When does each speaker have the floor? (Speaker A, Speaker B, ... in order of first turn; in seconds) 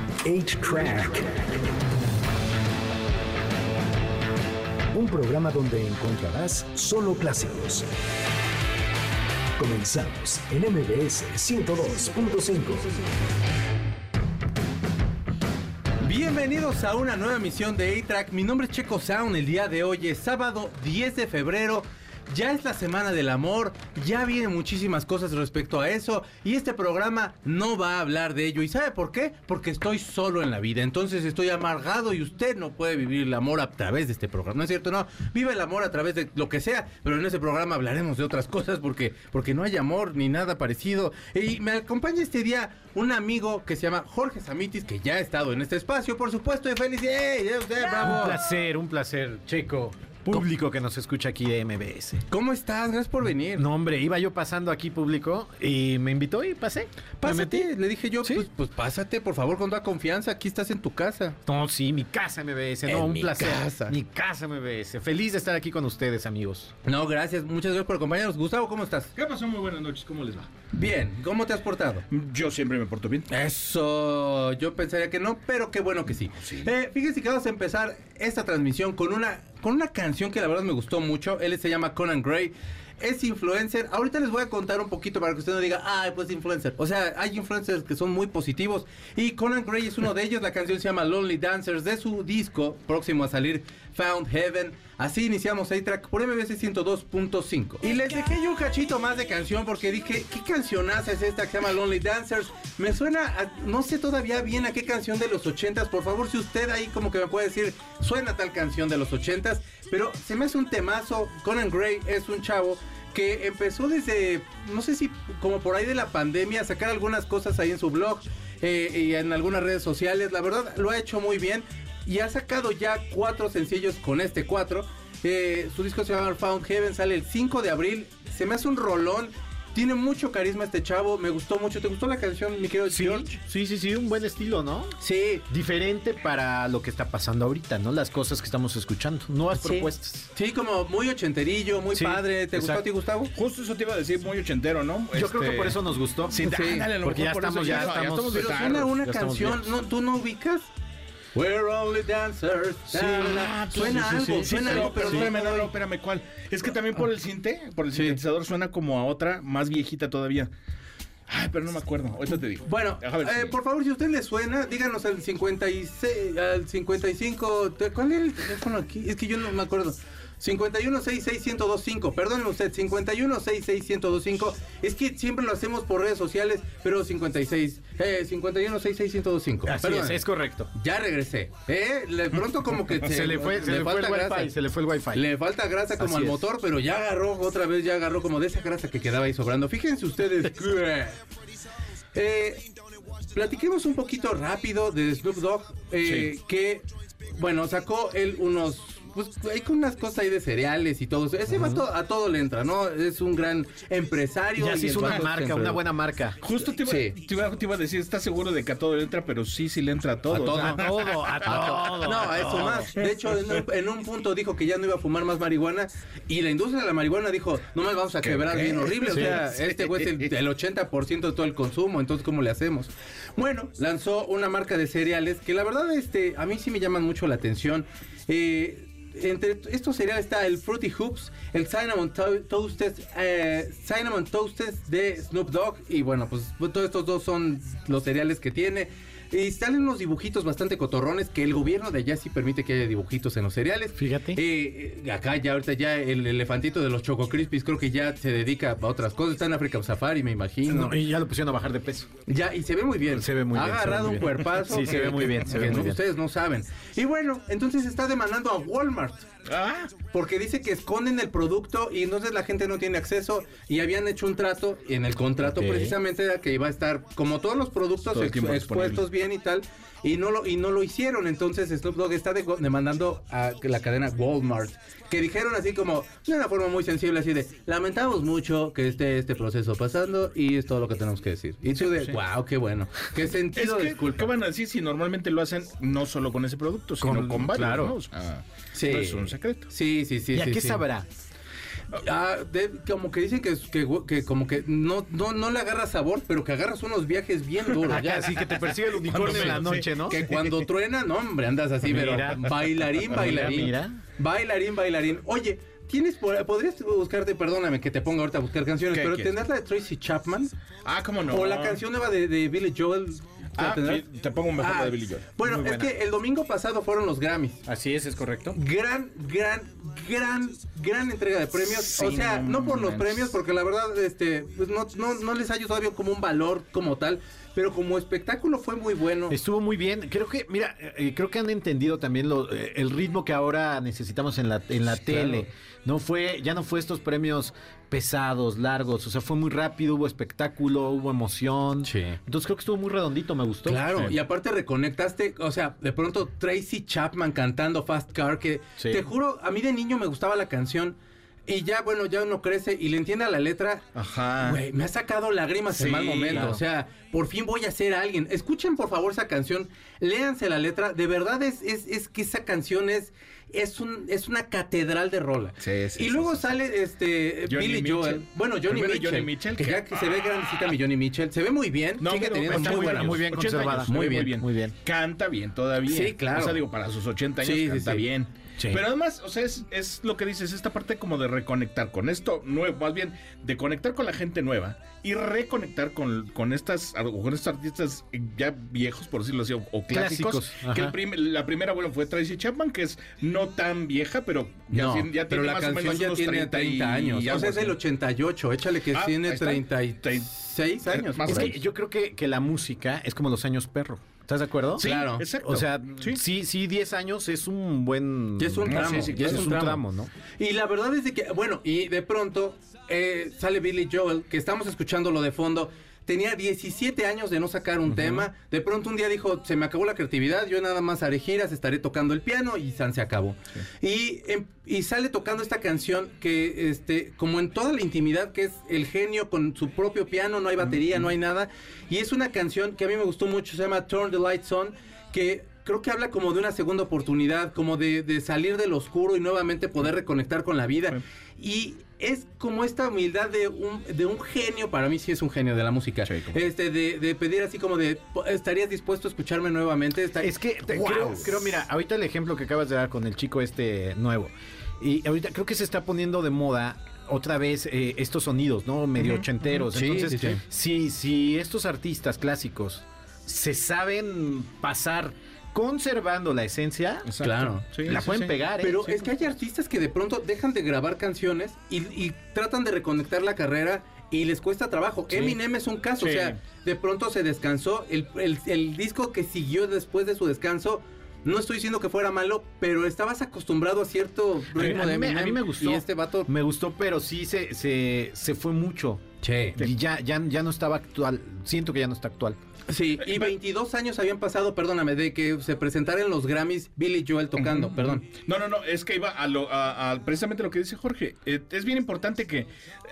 Speaker A: 0.2-1.4, 4.9-7.9, 9.6-13.0
Speaker B: 16.0-48.4, 52.3-53.6, 57.2-61.4, 62.9-64.0, 66.8-69.1, 70.7-72.0, 73.3-133.4, 135.0-135.4, 139.5-143.3, 146.4-146.9, 148.3-150.7, 151.3-155.7, 157.9-158.2, 162.6-184.6, 185.1-191.2, 192.1-192.6, 193.3-205.9, 206.8-207.2, 210.3-251.0, 252.2-259.2, 260.1-284.3, 288.7-290.8, 291.9-298.6, 299.2-310.5, 311.2-314.1, 314.6-317.6, 318.5-329.4, 334.9-335.5, 341.8-342.2, 343.6-353.9, 354.4-373.2, 373.9-374.4, 375.8-376.6, 377.4-378.1, 394.7-401.5, 404.8-405.3, 408.4-409.8, 410.4-451.4, 459.7-460.4, 467.2-468.0, 468.6-486.3, 489.2-489.6, 492.7-498.0
Speaker C: 47.8-52.2, 53.5-57.7, 61.5-66.7, 132.9-134.9, 135.5-140.3, 141.9-142.8, 145.1-149.7, 152.9-153.3, 154.6-155.1, 179.7-180.7, 182.9-185.2, 185.9-186.4, 201.5-201.8, 204.6-206.4, 210.6-212.9, 243.9-244.4, 250.7-252.1, 253.1-256.0, 265.6-265.9, 287.0-288.0, 290.3-291.1, 297.8-300.2, 301.8-304.0, 315.4-315.9, 317.6-318.6, 329.3-344.2, 356.3-356.6, 372.5-374.7, 378.6-378.8, 389.9-391.0, 401.2-410.1, 417.9-418.3, 450.2-467.1, 467.8-469.1, 484.5-489.0, 489.6-492.4
Speaker D: 69.1-70.5, 72.1-73.3, 76.4-76.7, 143.3-148.9, 153.0-160.5, 161.3-163.5, 196.0-196.3, 206.4-212.5, 218.2-220.3, 259.4-259.9, 268.1-269.1, 283.5-289.7, 298.9-300.6, 308.9-309.3, 310.8-311.8, 313.5-315.3, 321.6-323.3, 353.9-354.6, 355.7-356.6, 365.6-366.4, 367.5-369.9, 372.0-397.8, 398.9-400.3, 400.8-401.6, 404.7-406.2, 408.6-409.8, 446.1-446.4, 467.0-468.3, 475.1-475.4, 476.0-476.4, 493.0-493.3, 497.4-502.5